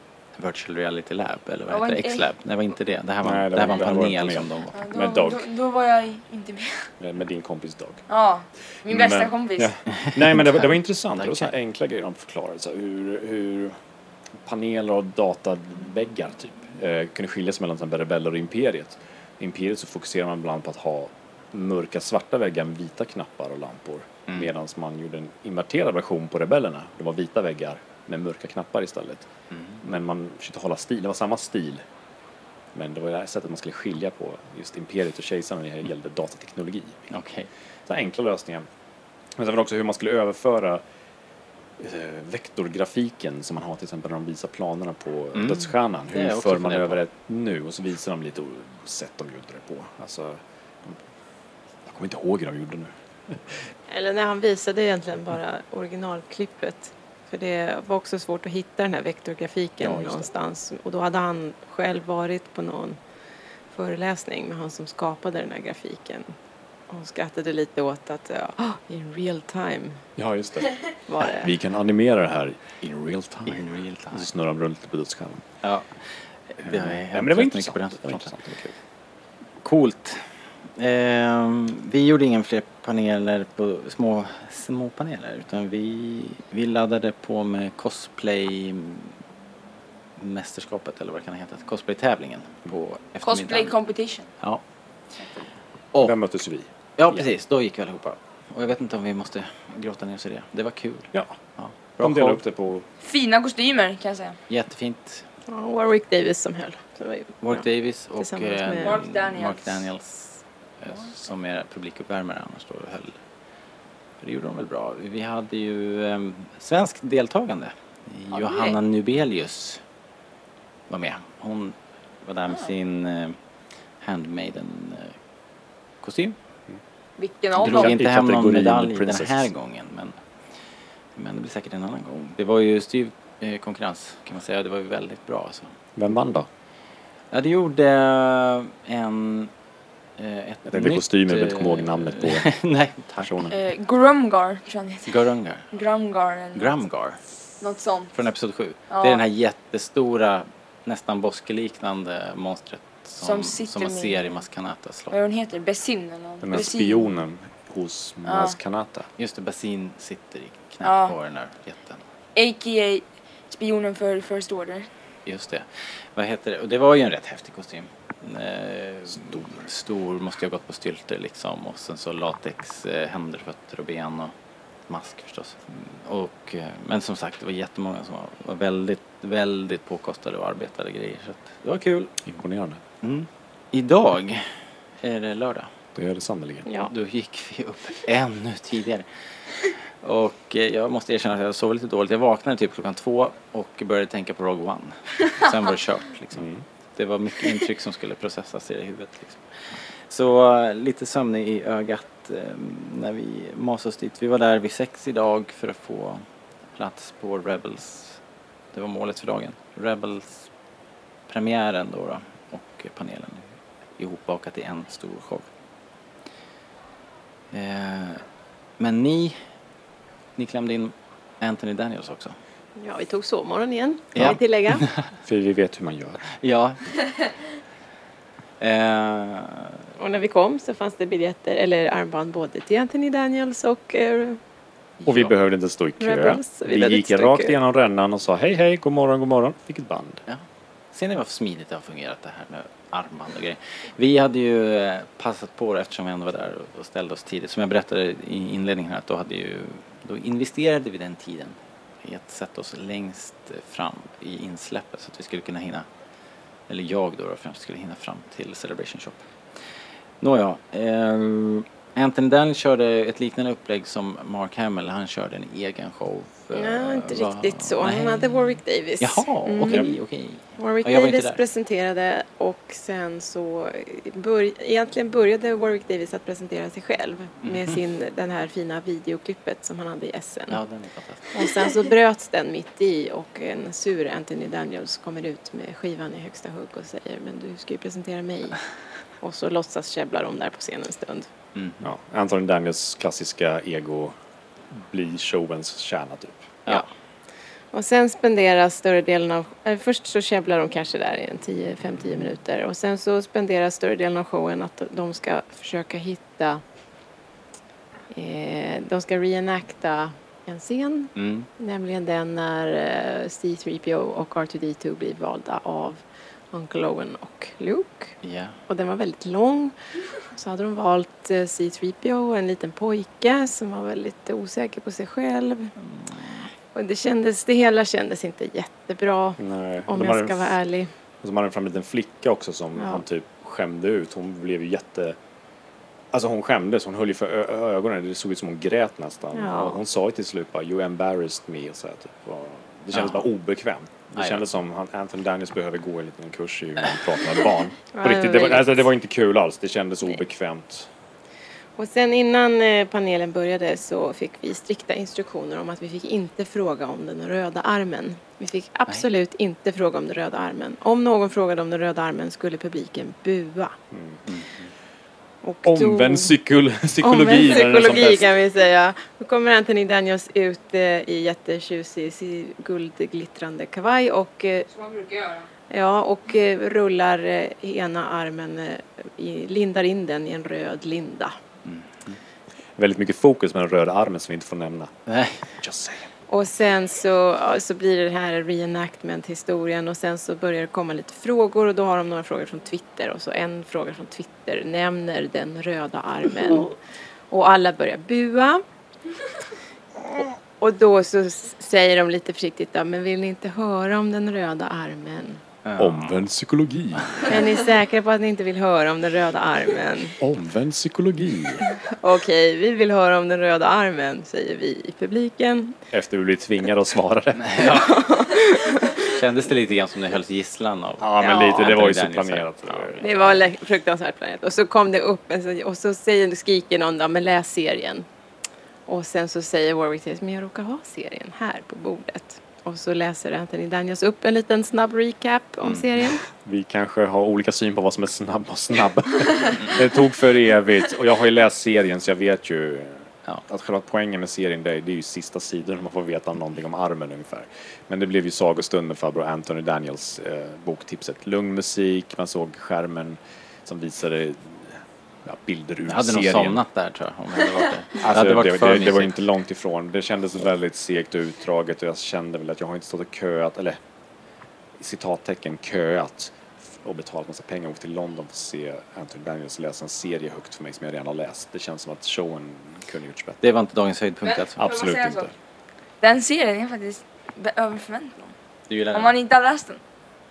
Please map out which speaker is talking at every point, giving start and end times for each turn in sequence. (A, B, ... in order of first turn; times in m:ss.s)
0:00.4-0:04.8 A
0:01.7-0:02.3 B
0:03.2-0:05.4 C
0:04.7-0:06.9 B
0:07.0-0:08.0 C
0:08.1-0:09.7 B
0:08.8-0:13.8 C
0:10.0-0:11.5 A
0:14.4-0:29.3 C
0:29.5-0:29.8 A
0:29.8-0:31.8 C
0:32.7-0:37.1 C
0:37.1-0:37.5 A
0:37.9-0:38.7 C
0:39.4-0:40.8 C
0:41.8-0:51.0 C
0:45.3-0:47.0 A
0:51.8-0:53.6 C
0:53.9-1:03.0 D
0:59.8-1:00.3 C
1:03.7-1:06.4 D
1:06.9-1:10.0 D
1:10.2-1:15.4 C
1:11.1-1:11.5 D
1:13.5-1:14.3 A
1:15.6-1:18.4 A
1:16.6-1:18.8 C
1:19.6-1:29.2 A
1:30.2-1:33.7 A
1:33.2-1:34.3 B
1:35.9-1:36.2 A
1:36.0-1:37.2 C
1:37.0-1:42.4 A
1:42.0-1:42.9 C
1:43.0-1:44.4 B
1:44.5-1:45.2 A
1:45.5-1:47.6 D
1:47.4-1:50.2 A
1:48.2-1:49.0 D
1:48.8-1:49.9 B
1:50.8-1:53.2 A
1:54.2-1:59.8 A
2:00.9-2:03.4 A
2:04.0-2:05.2 A
2:06.0-2:06.4 A
2:07.2-2:08.0 B
2:07.6-2:10.2 A
2:07.6-2:09.5 C
2:11.2-2:15.7 A
2:16.0-2:16.5 C
2:17.3-2:19.5 A
2:20.2-2:23.6 A
2:20.6-2:22.5 C
2:23.2-2:23.5 C
2:23.5-2:25.2 B
2:25.1-2:25.7 A
2:25.7-2:26.8 B
2:26.5-2:27.2 A
2:27.6-2:28.2 B
2:28.1-2:35.2 A
2:28.9-2:29.2 B
2:33.2-2:34.4 B
2:35.1-2:37.1 B
2:36.4-2:39.1 C
2:38.2-2:38.6 B
2:39.2-2:42.0 A
2:40.8-2:41.2 B
2:42.4-2:44.9 B
2:45.2-2:54.4 A
2:49.1-2:49.6 C
2:54.9-3:02.2 A
3:02.2-3:02.8 C
3:03.0-3:05.7 A
3:05.9-3:06.7 C
3:06.6-3:06.9 D
3:06.8-3:26.2 A
3:16.3-3:16.6 C
3:26.8-3:28.2 A
3:28.7-3:30.5 A
3:31.3-3:35.5 A
3:37.5-3:38.2 A
3:38.8-3:39.4 A
3:40.4-3:42.4 A
3:42.8-3:44.9 D
3:44.2-3:45.1 A
3:45.2-3:46.2 C
3:46.3-3:47.0 A
3:48.6-3:49.9 A
3:50.0-3:54.4 D
3:55.0-3:55.3 A
3:55.1-4:00.2 C
3:56.0-3:57.5 D
4:00.3-4:15.9 A
4:16.7-4:31.4 A
4:26.5-4:29.3 D
4:29.5-4:29.9 B
4:29.6-4:29.9 C
4:30.6-4:40.6 D
4:37.4-4:37.7 A
4:40.5-4:41.3 A
4:41.3-4:48.7 D
4:49.2-4:51.3 D
4:51.6-4:51.9 A
4:51.8-4:54.1 C
4:54.7-4:56.8 C
4:57.7-5:06.6 D
5:08.1-5:18.2 D
5:11.2-5:11.5 A
5:18.2-5:18.6 A
5:18.7-5:25.7 D
5:25.8-5:26.5 A
5:26.7-5:30.9 D
5:29.4-5:30.6 C
5:31.2-5:35.2 C
5:32.8-5:33.0 D
5:36.1-5:50.9 C
5:39.3-5:39.8 D
5:42.9-5:43.2 A
5:44.2-5:44.4 A
5:47.9-5:48.9 D
5:51.8-6:03.8 D
6:03.9-6:04.2 C
6:04.3-6:04.7 A
6:05.4-6:06.3 D
6:05.6-6:08.3 C
6:07.0-6:14.7 D
6:14.7-6:15.5 B
6:15.7-6:21.4 D
6:21.6-6:22.2 A
6:22.8-6:24.9 C
6:25.1-6:25.4 A
6:25.5-6:26.1 C
6:26.3-6:36.8 D
6:37.3-6:38.6 D
6:40.6-6:45.4 D
6:45.6-6:46.2 A
6:45.8-6:47.3 C
6:47.2-6:50.2 D
6:50.2-6:51.7 C
6:51.8-6:55.8 D
6:55.9-6:58.0 C
6:57.4-6:57.9 A
6:57.6-6:59.1 D
6:59.0-7:03.4 A
7:01.0-7:03.3 C
7:01.2-7:01.8 D
7:03.0-7:08.1 D
7:08.9-7:16.2 D
7:16.3-7:36.6 C
7:35.9-7:39.2 A
7:38.0-7:43.8 C
7:44.8-7:53.4 C
7:53.4-7:54.7 A
7:54.2-7:55.3 B
7:54.6-7:55.3 C
7:56.0-7:58.4 B
7:58.7-7:59.1 A
7:58.9-7:59.8 B